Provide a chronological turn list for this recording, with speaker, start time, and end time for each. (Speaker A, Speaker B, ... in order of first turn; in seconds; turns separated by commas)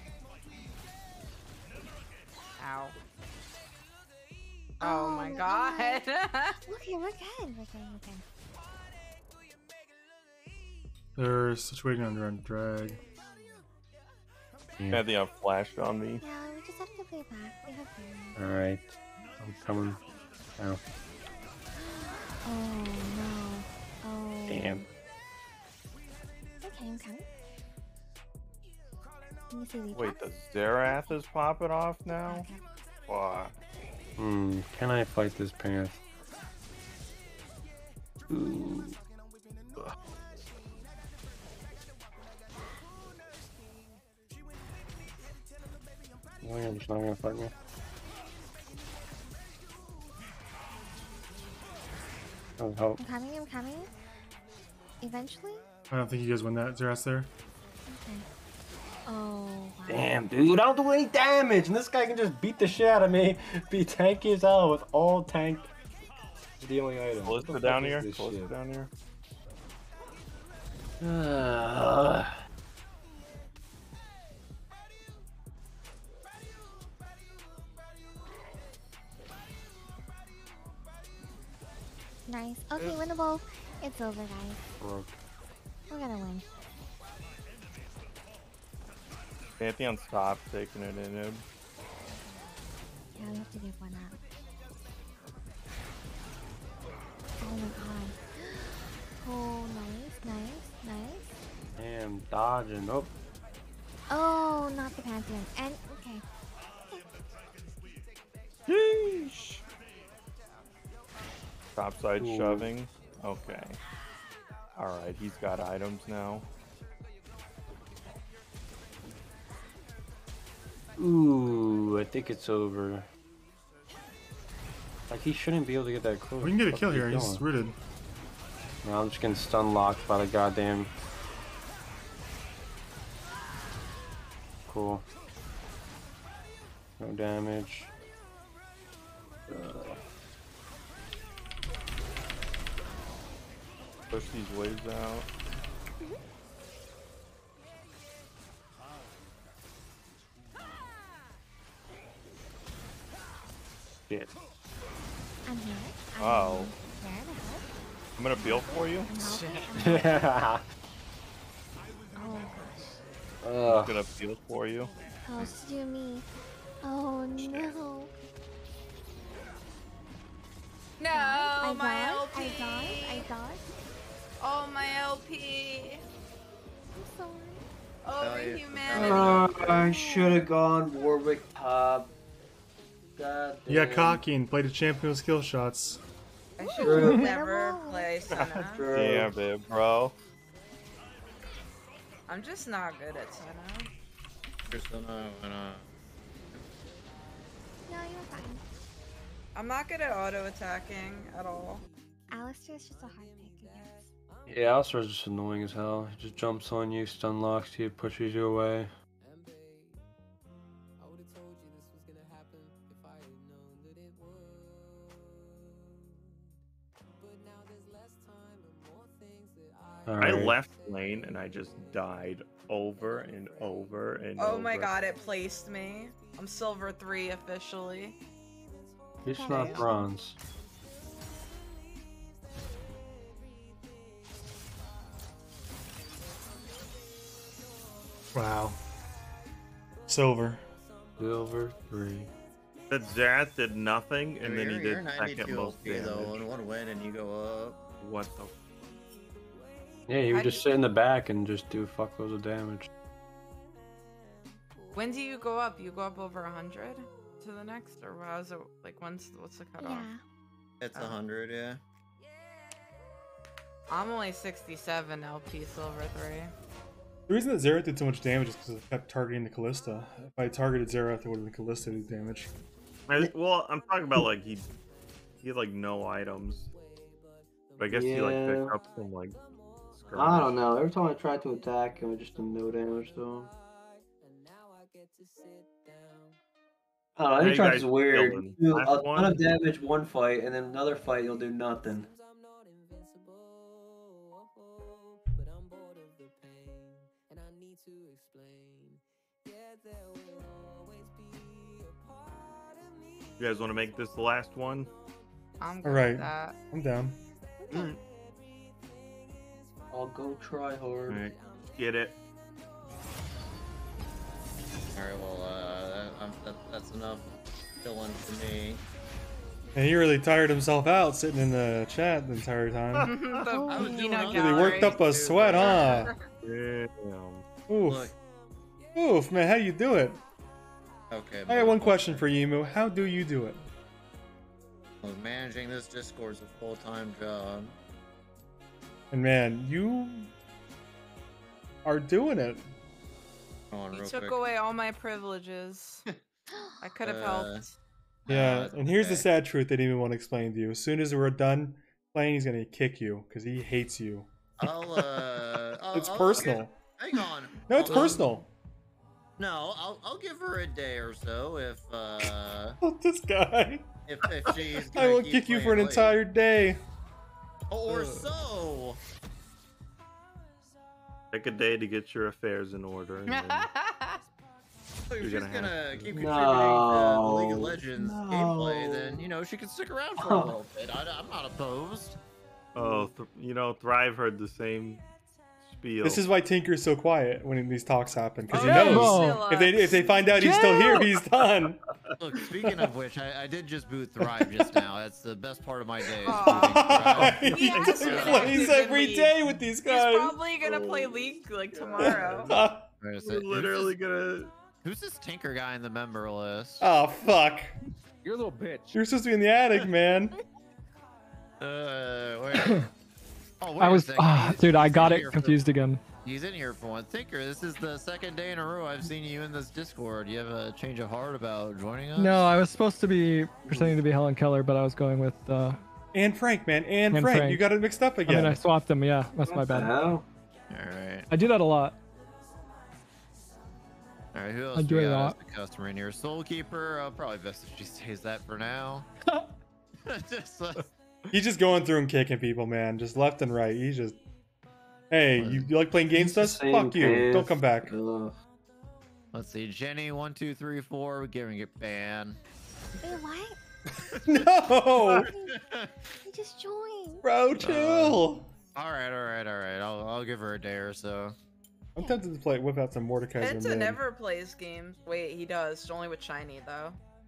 Speaker A: 2.6-2.9, Speaker B: 4.8-6.0, Speaker A: 4.8-6.6, Speaker B: 6.7-8.2, Speaker C: 11.2-13.0, Speaker D: 14.8-15.0, Speaker E: 14.9-16.2, Speaker B: 16.2-18.4, Speaker D: 18.4-18.9, Speaker D: 19.4-20.0, Speaker B: 21.8-24.9, Speaker D: 24.5-24.8, Speaker B: 26.6-27.2, Speaker B: 29.5-30.2, Speaker E: 29.9-32.5, Speaker B: 30.8-31.2, Speaker B: 32.0-32.6, Speaker E: 33.0-33.5, Speaker D: 34.2-36.0, Speaker D: 38.3-39.0, Speaker D: 46.4-47.5, Speaker D: 52.6-53.0, Speaker B: 53.0-53.9, Speaker B: 55.0-55.6, Speaker C: 55.9-57.3, Speaker B: 57.9-58.3, Speaker B: 59.0-60.1, Speaker D: 59.9-65.7, Speaker D: 66.6-68.5, Speaker E: 67.2-68.9, Speaker D: 71.0-72.3, Speaker B: 82.2-84.6, Speaker D: 84.8-85.1, Speaker B: 85.9-86.5, Speaker E: 89.6-91.4, Speaker B: 93.1-94.2, Speaker B: 97.4-101.3, Speaker D: 101.8-103.1, Speaker B: 104.1-106.2, Speaker B: 106.8-107.0, Speaker E: 108.7-109.6, Speaker E: 111.8-113.8, Speaker D: 112.2-112.7, Speaker E: 114.8-116.4, Speaker D: 121.0-123.1, Speaker D: 125.1-127.4, Speaker C: 126.4-127.8, Speaker D: 128.8-130.9, Speaker D: 134.7-135.1, Speaker D: 137.0-137.9, Speaker D: 139.5-139.9, Speaker E: 144.1-145.3, Speaker B: 155.4-157.7, Speaker E: 156.2-156.7, Speaker E: 158.2-159.1, Speaker B: 158.4-160.4, Speaker A: 159.1-160.0, Speaker D: 159.8-160.6, Speaker B: 162.1-163.0, Speaker D: 163.4-164.0, Speaker E: 163.7-164.9, Speaker B: 165.2-166.3, Speaker B: 166.8-168.1, Speaker E: 167.4-167.7, Speaker A: 171.0-173.3, Speaker B: 171.1-173.6, Speaker A: 174.4-176.0, Speaker B: 176.9-177.7, Speaker A: 178.0-179.5, Speaker F: 178.2-179.9, Speaker G: 178.9-182.1, Speaker G: 183.2-184.2, Speaker C: 183.7-186.0, Speaker A: 186.6-188.8, Speaker B: 186.6-188.1, Speaker G: 186.8-187.2, Speaker E: 188.3-190.2, Speaker G: 188.8-189.3, Speaker A: 192.3-193.9, Speaker F: 194.7-195.9, Speaker B: 197.9-198.7, Speaker A: 199.5-201.8, Speaker B: 202.3-204.1, Speaker D: 204.5-208.9, Speaker D: 220.1-220.6, Speaker E: 220.2-224.9, Speaker A: 224.4-228.2, Speaker B: 229.2-230.1, Speaker D: 229.2-230.4, Speaker A: 229.4-229.8, Speaker C: 238.3-238.8, Speaker C: 240.1-240.6, Speaker D: 241.2-242.3, Speaker E: 242.9-246.4, Speaker F: 244.4-247.8, Speaker E: 248.0-248.5, Speaker D: 250.1-252.9, Speaker A: 250.3-250.6, Speaker A: 254.9-260.1, Speaker B: 259.8-260.2, Speaker F: 260.8-261.8, Speaker A: 263.9-266.5, Speaker C: 267.3-272.5, Speaker E: 273.1-274.7, Speaker E: 275.4-276.7, Speaker E: 277.8-279.4, Speaker G: 277.9-278.8, Speaker E: 279.9-280.6, Speaker G: 280.1-283.5, Speaker G: 287.1-292.1, Speaker E: 287.4-289.4, Speaker E: 303.4-304.9, Speaker A: 305.6-306.6, Speaker C: 305.8-307.2, Speaker B: 307.6-307.9, Speaker E: 307.7-308.0, Speaker G: 309.9-311.3, Speaker E: 311.1-312.1, Speaker F: 314.9-318.8, Speaker C: 319.7-323.1, Speaker E: 322.9-323.3, Speaker A: 323.0-325.0, Speaker B: 323.4-324.3, Speaker F: 323.7-326.1, Speaker C: 324.2-326.1, Speaker A: 325.6-326.1, Speaker E: 326.4-327.4, Speaker C: 327.7-328.1, Speaker F: 327.9-328.1, Speaker C: 328.9-330.2, Speaker F: 331.1-332.3, Speaker C: 331.5-333.6, Speaker F: 335.0-337.7, Speaker C: 339.1-340.3, Speaker C: 341.8-342.7, Speaker F: 343.7-344.4, Speaker A: 343.9-346.0, Speaker B: 346.5-346.8, Speaker A: 346.8-347.7, Speaker F: 347.0-347.6, Speaker F: 348.3-349.3, Speaker C: 348.3-355.1, Speaker F: 354.6-358.3, Speaker C: 355.9-356.8, Speaker C: 357.6-358.5, Speaker G: 357.8-358.2, Speaker F: 359.4-362.8, Speaker C: 362.8-366.8, Speaker F: 364.1-366.2, Speaker F: 367.7-369.0, Speaker E: 367.9-368.3, Speaker E: 371.3-373.7, Speaker A: 373.3-374.2, Speaker F: 375.1-382.2, Speaker E: 375.2-376.4, Speaker G: 376.1-379.3, Speaker G: 380.2-380.6, Speaker E: 382.7-385.0, Speaker G: 382.8-383.1, Speaker E: 385.6-386.2, Speaker C: 386.0-391.8, Speaker H: 388.5-389.4, Speaker A: 388.5-390.9, Speaker H: 390.3-391.1, Speaker E: 391.4-392.1, Speaker F: 392.2-398.7, Speaker A: 396.2-396.9, Speaker C: 396.2-400.4, Speaker E: 397.1-398.5, Speaker A: 397.5-402.5, Speaker E: 400.6-404.5, Speaker C: 402.1-402.9, Speaker F: 403.0-403.9, Speaker F: 404.8-406.9, Speaker C: 406.8-407.7, Speaker D: 408.2-408.9, Speaker G: 408.4-408.8, Speaker C: 408.9-410.3, Speaker F: 411.6-412.9, Speaker F: 413.6-415.7, Speaker H: 413.8-416.0, Speaker F: 416.2-422.5, Speaker H: 422.1-425.8, Speaker C: 426.1-428.6, Speaker H: 427.1-427.7, Speaker H: 428.2-429.9, Speaker G: 429.5-430.2, Speaker F: 430.7-431.3, Speaker H: 431.3-432.0, Speaker F: 434.3-439.1, Speaker H: 434.7-435.4, Speaker F: 440.0-440.8, Speaker C: 441.3-444.2, Speaker C: 445.1-447.9, Speaker F: 445.4-445.7, Speaker D: 446.2-447.5, Speaker G: 446.7-448.4, Speaker F: 449.3-452.4, Speaker B: 453.0-453.6, Speaker F: 454.0-454.4, Speaker C: 454.1-455.3, Speaker F: 455.0-455.9, Speaker B: 455.0-455.6, Speaker B: 456.2-457.2, Speaker C: 457.2-458.5, Speaker F: 457.6-458.2, Speaker F: 458.7-461.4, Speaker C: 461.9-464.0, Speaker A: 463.4-467.0